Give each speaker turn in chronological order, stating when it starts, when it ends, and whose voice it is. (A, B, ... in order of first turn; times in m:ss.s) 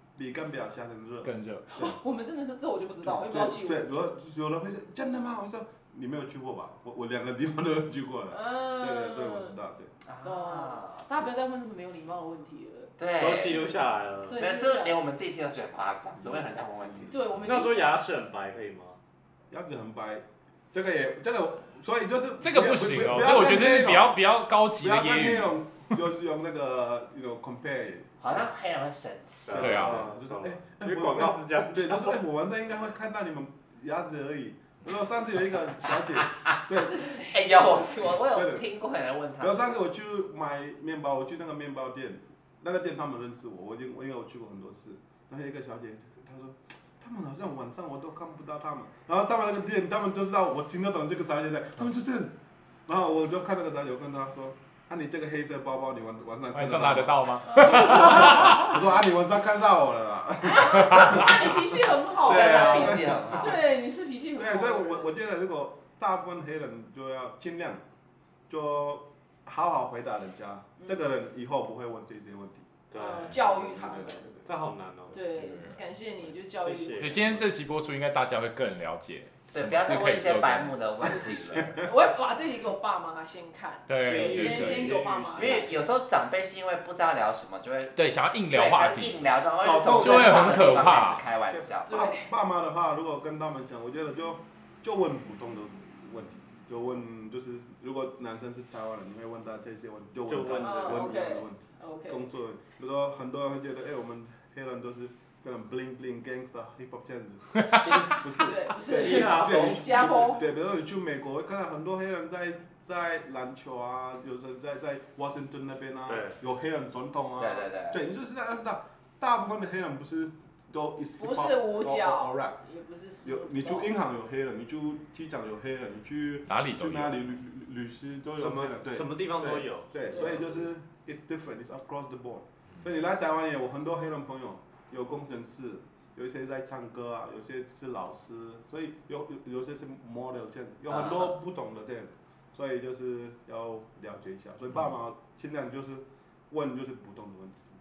0:00.2-0:02.0 A
0:01.2-0:01.7 B
0:01.7-0:03.9 C
0:03.0-0:09.9 A
0:08.3-0:09.5 C
0:10.0-0:11.1 D
0:10.2-0:12.9 C
0:13.0-0:13.7 D
0:13.2-0:14.4 E
0:14.3-0:15.0 C
0:14.4-0:17.3 D
0:17.1-0:17.9 C
0:17.4-0:19.0 E
0:19.5-0:24.2 A
0:22.4-0:25.6 B
0:24.8-0:28.3 A
0:28.2-0:29.9 D
0:29.5-0:32.2 E
0:29.5-0:37.3 A
0:29.6-0:30.1 B
0:35.9-0:39.8 D
0:38.0-0:38.7 A
0:39.4-0:52.3 A
0:52.9-1:03.6 A
0:56.5-0:58.8 B
1:00.6-1:05.1 C
1:00.7-1:01.3 B
1:02.2-1:03.0 E
1:02.3-1:03.6 D
1:04.4-1:07.8 A
1:08.5-1:14.5 A
1:12.9-1:13.4 E
1:13.0-1:14.2 C
1:14.4-1:15.3 E
1:15.1-1:17.3 C
1:15.3-1:15.8 B
1:16.6-1:17.4 E
1:17.0-1:20.7 B
1:19.5-1:21.8 D
1:21.0-1:22.0 A
1:21.8-1:25.7 C
1:23.9-1:25.1 B
1:24.0-1:25.7 E
1:25.4-1:28.0 D
1:27.9-1:29.2 B
1:28.5-1:32.1 D
1:29.6-1:30.9 E
1:29.9-1:31.2 B
1:31.5-2:02.6 A
1:31.9-1:32.3 C
1:40.3-1:41.1 E
1:40.6-1:42.2 C
1:47.6-1:48.2 B
1:48.3-1:50.4 C
1:48.8-1:50.3 E
1:56.1-1:56.4 E
1:57.4-1:58.0 D
2:01.2-2:03.9 C
2:03.2-2:27.6 A
2:06.5-2:07.3 B
2:08.4-2:10.5 E
2:10.1-2:10.4 C
2:20.9-2:21.4 D